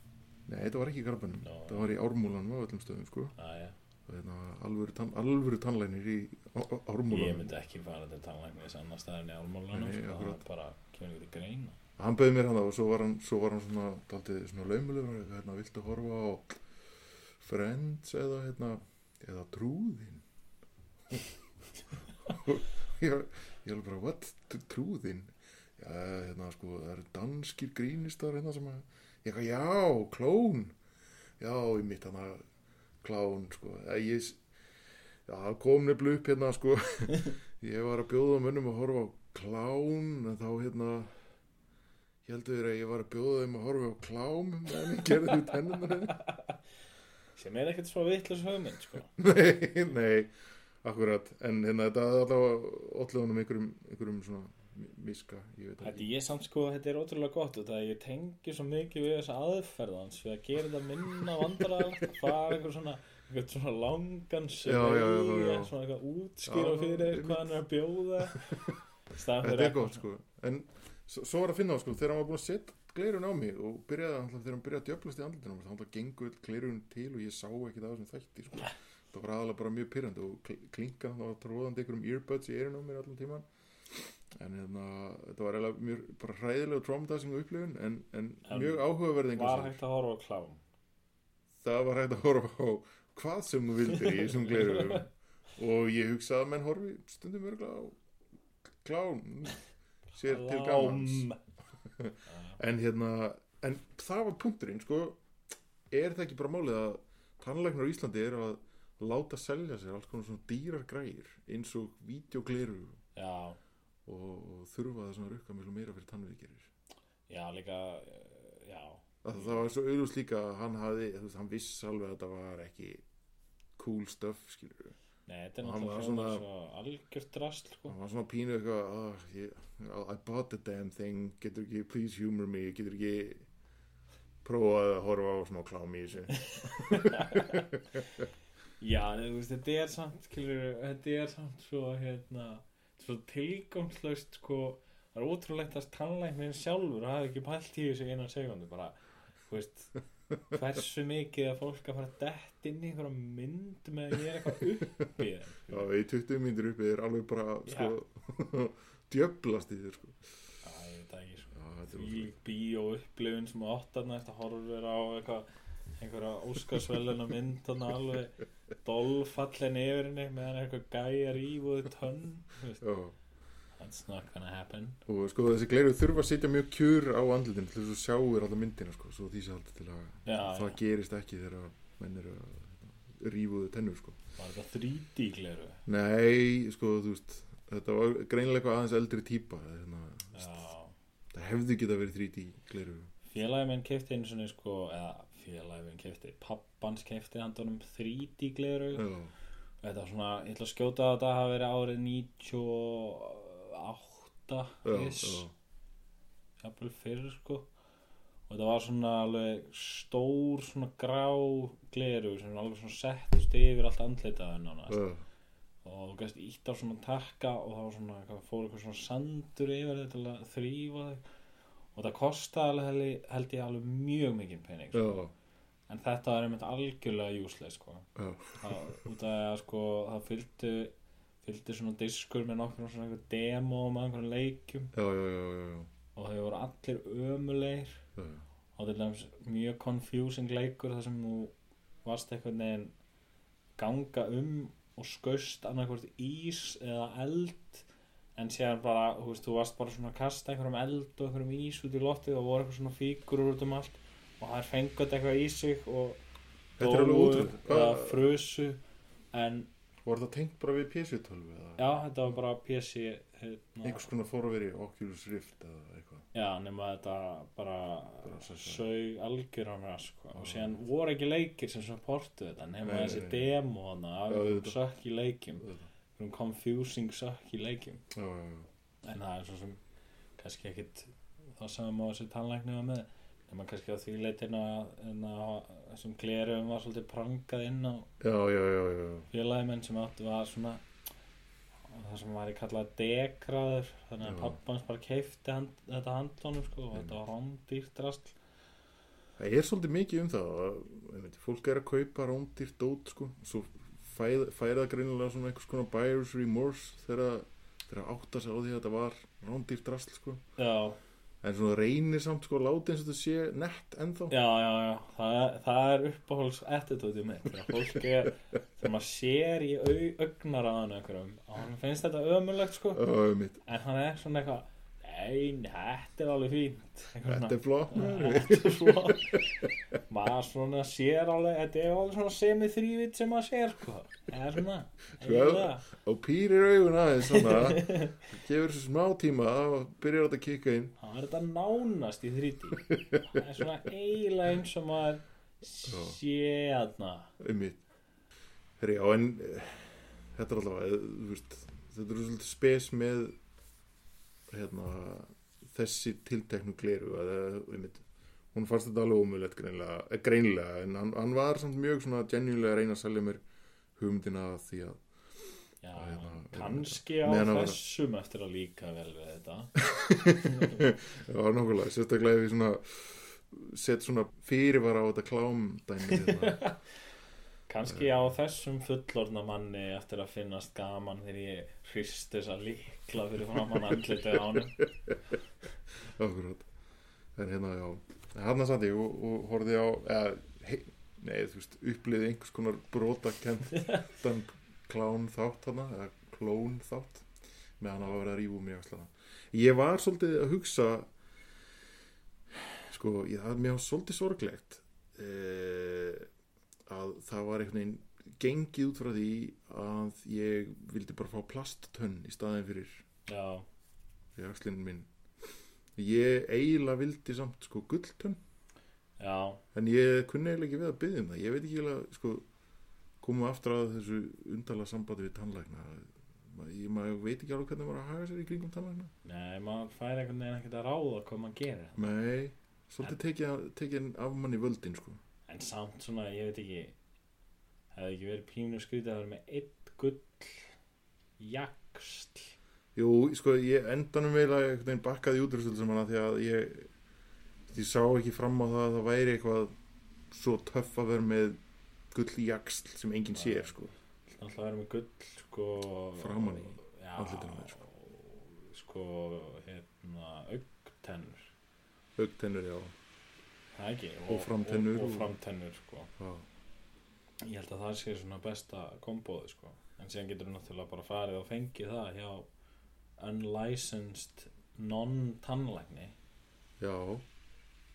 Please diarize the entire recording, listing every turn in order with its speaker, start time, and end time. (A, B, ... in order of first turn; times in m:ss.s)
0:00.5-0:03.3 A
0:01.4-0:01.9 B
0:03.4-0:03.8 B
0:04.1-0:07.5 A
0:07.1-0:11.8 B
0:09.7-0:10.4 A
0:12.0-0:16.6 A
0:17.4-0:20.2 A
0:22.2-0:30.7 A
0:31.4-0:32.4 A
0:33.0-0:34.4 A
0:35.3-0:41.1 A
0:42.2-0:46.2 A
0:47.3-0:49.1 B
0:49.2-0:56.1 A
0:55.8-1:10.0 B
1:04.6-1:05.7 A
1:06.4-1:07.6 A
1:08.3-1:08.6 A
1:09.4-1:29.8 A
1:28.4-1:30.6 B
1:31.6-1:38.0 A
1:34.0-1:35.0 B
1:38.6-1:41.3 A
1:40.1-1:41.4 B
1:41.8-1:45.2 A
1:42.3-1:42.6 B
1:45.9-1:53.0 A
1:53.1-1:53.6 B
1:54.0-1:56.7 A
1:57.3-1:59.6 B
1:59.2-2:03.0 A
2:03.8-2:05.0 A
2:05.3-2:07.9 B
2:05.6-2:06.4 A
2:07.9-2:13.5 A
2:14.4-2:18.2 A
2:16.6-2:17.6 B
2:18.8-2:29.9 B
2:30.5-2:35.8 B
2:35.7-2:40.4 A
2:37.6-2:37.9 B
2:40.6-2:45.5 B
2:41.5-2:42.3 A
2:46.0-2:52.8 B
2:52.8-2:53.1 A
2:53.8-2:55.0 B
2:55.1-3:04.2 A
3:00.2-3:00.8 B
3:04.4-3:05.8 B
3:05.9-3:10.7 A
3:10.3-3:10.9 B
3:11.3-3:13.1 A
3:13.3-3:19.1 B
3:18.9-3:19.3 A
3:19.8-3:25.5 B
3:24.8-3:25.5 A
3:26.6-3:27.7 B
3:28.5-3:35.0 B
3:34.9-3:35.2 A
3:35.8-3:41.2 B
3:41.9-3:45.2 B
3:44.9-3:45.3 A
3:45.9-3:54.9 B
3:48.2-3:49.0 A
3:54.9-3:55.9 A
3:56.1-3:58.0 B
3:58.2-3:58.4 A
3:58.8-4:01.5 B
4:02.0-4:02.9 B
4:03.8-4:07.8 B
4:08.4-4:16.2 B
4:16.8-4:18.3 A
4:16.8-4:18.8 B
4:19.3-4:19.7 B
4:20.0-4:21.8 A
4:21.8-4:24.1 B
4:23.8-4:26.2 A
4:26.3-4:38.0 B
4:28.2-4:28.8 A
4:30.3-4:30.8 A
4:32.8-4:33.5 A
4:34.3-4:34.8 A
4:35.6-4:35.9 A
4:38.1-4:38.7 A
4:39.0-4:39.8 B
4:40.4-4:48.1 B
4:48.2-4:49.3 A
4:49.3-4:50.8 B
4:51.9-4:58.4 B
4:54.2-4:54.6 A
4:59.4-5:10.4 A
5:10.6-5:11.0 B
5:11.4-5:14.3 A
5:14.3-5:23.0 B
5:22.9-5:23.6 A
5:23.6-5:29.4 B
5:27.2-5:29.7 A
5:30.1-5:35.8 B
5:35.2-5:40.9 A
5:37.3-5:38.2 B
5:41.0-5:47.3 B
5:42.9-5:43.2 A
5:45.9-5:46.2 A
5:47.4-5:47.8 A
5:48.8-5:53.4 A
5:54.5-6:03.4 A
6:04.0-6:05.0 A
6:05.8-6:09.8 B
6:05.9-6:07.8 A
6:09.8-6:16.7 A
6:16.1-6:16.7 B
6:17.7-6:24.8 B
6:17.9-6:18.3 A
6:24.5-6:25.2 A
6:26.0-6:26.7 A
6:27.4-6:37.3 A
6:37.8-6:41.1 A
6:42.5-6:46.3 A
6:46.9-6:53.0 A
6:53.3-6:53.6 B
6:54.4-6:55.1 A
6:56.0-6:58.4 A
6:59.2-6:59.6 B
6:59.7-7:02.4 A
7:03.2-7:09.1 A
7:09.2-7:12.0 B
7:12.0-7:15.2 A
7:15.5-7:16.9 B
7:17.9-7:20.7 B
7:21.4-7:22.5 B
7:22.9-7:26.9 A
7:27.7-7:29.7 A
7:30.3-7:31.6 A
7:32.1-7:33.9 A
7:33.3-7:33.7 B
7:34.2-7:41.5 B
7:36.2-7:37.8 A
7:42.2-7:42.9 A
7:43.7-7:46.1 B
7:44.3-7:45.3 A
7:46.2-7:46.4 A
7:47.4-7:52.5 B
7:53.2-7:56.2 B
7:56.8-7:57.2 A